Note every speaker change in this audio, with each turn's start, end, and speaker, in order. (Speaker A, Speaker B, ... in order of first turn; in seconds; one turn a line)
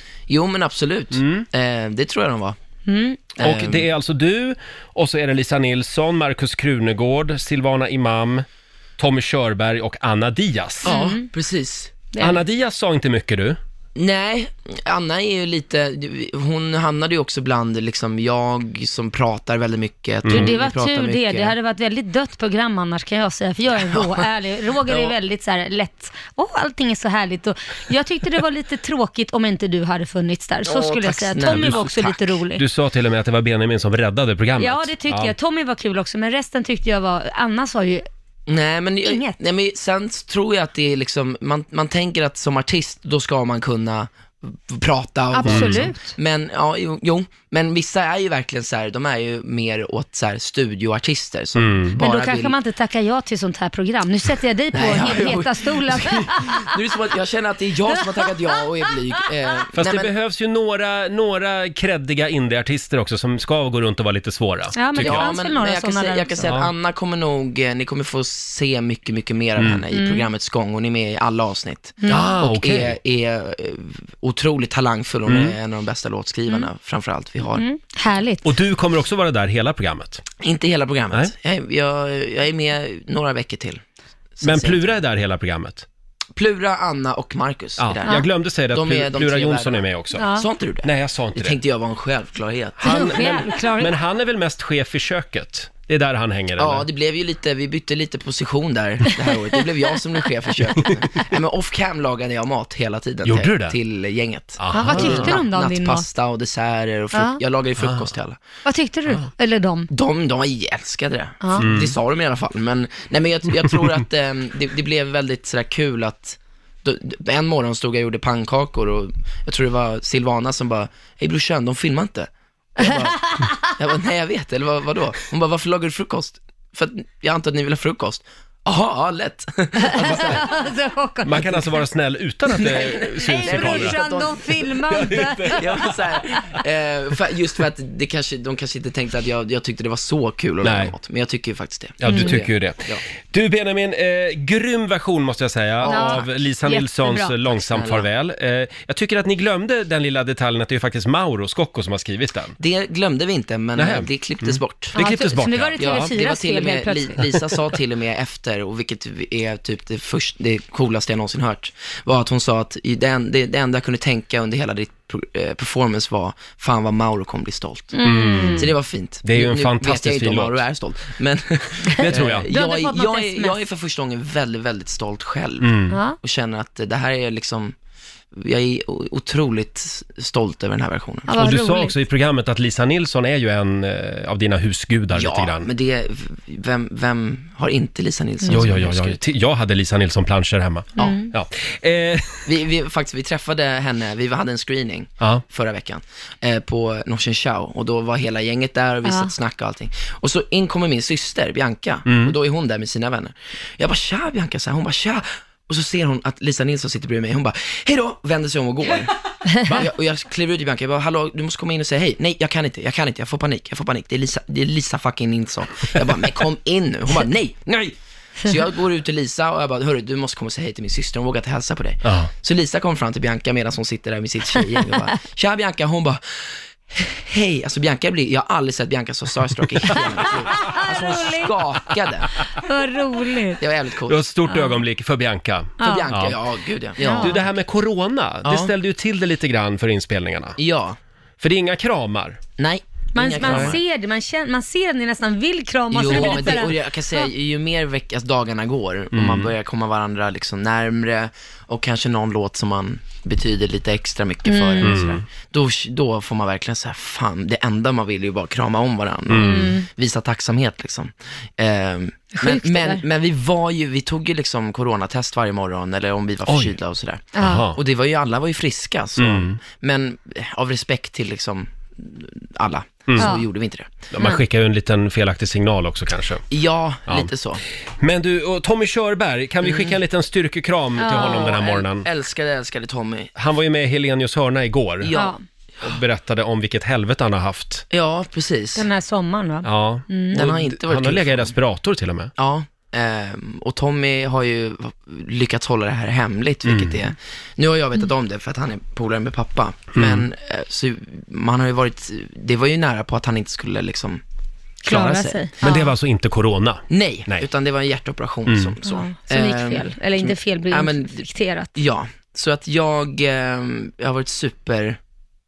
Speaker A: 0.3-2.6
Speaker B: 1.1-1.5
Speaker C: 2.9-3.2
Speaker A: 3.4-3.9
Speaker B: 3.4-8.4
Speaker B: 9.0-10.9
Speaker A: 10.8-12.1
Speaker C: 10.8-11.3
Speaker C: 12.1-12.4
Speaker B: 12.2-13.6
Speaker A: 14.0-21.6
Speaker B: 20.2-20.5
Speaker C: 20.3-32.6
Speaker A: 23.7-24.3
Speaker A: 24.9-25.1
Speaker A: 30.7-32.4
Speaker B: 31.5-31.8
Speaker B: 32.6-35.3
Speaker C: 34.6-38.1
Speaker A: 38.5-52.5
Speaker C: 39.0-39.4
Speaker C: 45.3-46.1
Speaker B: 45.5-45.9
Speaker B: 51.6-52.0
Speaker C: 52.0-56.7
Speaker A: 54.7-60.1
Speaker C: 58.1-58.6
Speaker B: 59.8-65.3
Speaker C: 64.8-66.4
Speaker A: 64.9-77.7
Speaker B: 66.5-66.7
Speaker B: 69.6-69.9
Speaker C: 69.9-70.3
Speaker C: 72.0-72.3
Speaker B: 72.1-73.0
Speaker B: 75.3-75.6
Speaker C: 77.5-78.5
Speaker B: 78.4-80.2
Speaker A: 80.4-83.8
Speaker A: 84.4-85.0
Speaker B: 84.4-85.9
Speaker A: 86.4-93.3
Speaker B: 87.8-90.3
Speaker C: 90.2-90.5
Speaker B: 90.8-91.6
Speaker B: 92.8-96.9
Speaker C: 92.8-93.9
Speaker A: 96.6-108.4
Speaker B: 103.2-103.8
Speaker B: 104.6-105.4
Speaker C: 104.7-106.1
Speaker C: 107.1-107.4
Speaker B: 107.8-108.1
Speaker C: 108.7-109.9
Speaker A: 109.9-130.5
Speaker C: 111.4-111.7
Speaker B: 111.6-112.0
Speaker B: 113.5-114.0
Speaker C: 122.9-123.6
Speaker C: 129.8-131.7
Speaker B: 130.0-130.4
Speaker B: 131.2-134.0
Speaker A: 132.6-134.8
Speaker C: 133.2-135.6
Speaker B: 134.9-136.4
Speaker A: 135.6-143.0
Speaker B: 140.6-140.9
Speaker B: 142.0-152.6
Speaker C: 142.1-142.4
Speaker A: 145.8-146.3
Speaker C: 145.9-147.4
Speaker A: 147.7-148.1
Speaker A: 152.6-155.1
Speaker B: 153.8-156.2
Speaker C: 154.9-157.3
Speaker A: 155.8-168.0
Speaker C: 167.9-168.7
Speaker B: 168.0-170.6
Speaker A: 168.6-177.8
Speaker B: 172.0-172.5
Speaker C: 172.0-173.6
Speaker B: 175.6-176.0
Speaker C: 175.9-176.2
Speaker A: 178.3-181.3
Speaker C: 181.3-182.0
Speaker B: 181.3-185.7
Speaker A: 185.1-189.2
Speaker C: 188.4-188.7
Speaker B: 188.5-192.5
Speaker A: 191.0-191.2
Speaker C: 191.0-191.3
Speaker A: 192.5-209.1
Speaker C: 199.1-199.3
Speaker B: 202.1-202.4
Speaker C: 209.5-209.8
Speaker A: 209.7-232.3
Speaker B: 222.0-222.3
Speaker C: 230.5-231.5
Speaker C: 232.6-233.6
Speaker A: 233.6-234.2
Speaker B: 234.1-236.4
Speaker C: 234.5-234.8
Speaker C: 235.8-236.1
Speaker A: 235.8-237.5
Speaker C: 237.0-237.4
Speaker B: 237.2-240.6
Speaker A: 238.4-238.7
Speaker A: 240.6-241.0
Speaker B: 241.4-242.4
Speaker A: 242.6-243.8
Speaker C: 243.1-247.3
Speaker B: 243.4-243.8
Speaker A: 245.9-274.1
Speaker B: 246.1-246.6
Speaker B: 249.1-249.5
Speaker C: 254.5-255.2
Speaker B: 254.8-255.2
Speaker B: 259.3-259.8
Speaker C: 259.4-259.9
Speaker C: 262.3-263.0
Speaker B: 266.5-266.8
Speaker C: 267.4-267.7
Speaker B: 267.4-267.8
Speaker B: 269.2-269.6
Speaker B: 273.1-273.4
Speaker C: 273.2-273.5
Speaker B: 274.1-276.4
Speaker A: 276.5-277.6
Speaker B: 277.1-277.3
Speaker B: 278.0-282.1
Speaker A: 279.6-280.0
Speaker C: 281.0-281.6
Speaker A: 281.1-283.3
Speaker B: 283.4-285.1
Speaker A: 285.0-286.0
Speaker C: 285.1-285.4
Speaker B: 285.8-287.9
Speaker A: 287.9-288.9
Speaker C: 288.8-290.5
Speaker B: 289.6-292.3
Speaker A: 290.3-291.5
Speaker A: 292.4-304.2
Speaker B: 296.6-297.1
Speaker B: 299.9-300.3
Speaker C: 304.8-305.9
Speaker A: 304.9-305.5
Speaker B: 304.9-307.5
Speaker A: 306.9-315.0
Speaker B: 308.5-308.8
Speaker C: 308.8-311.8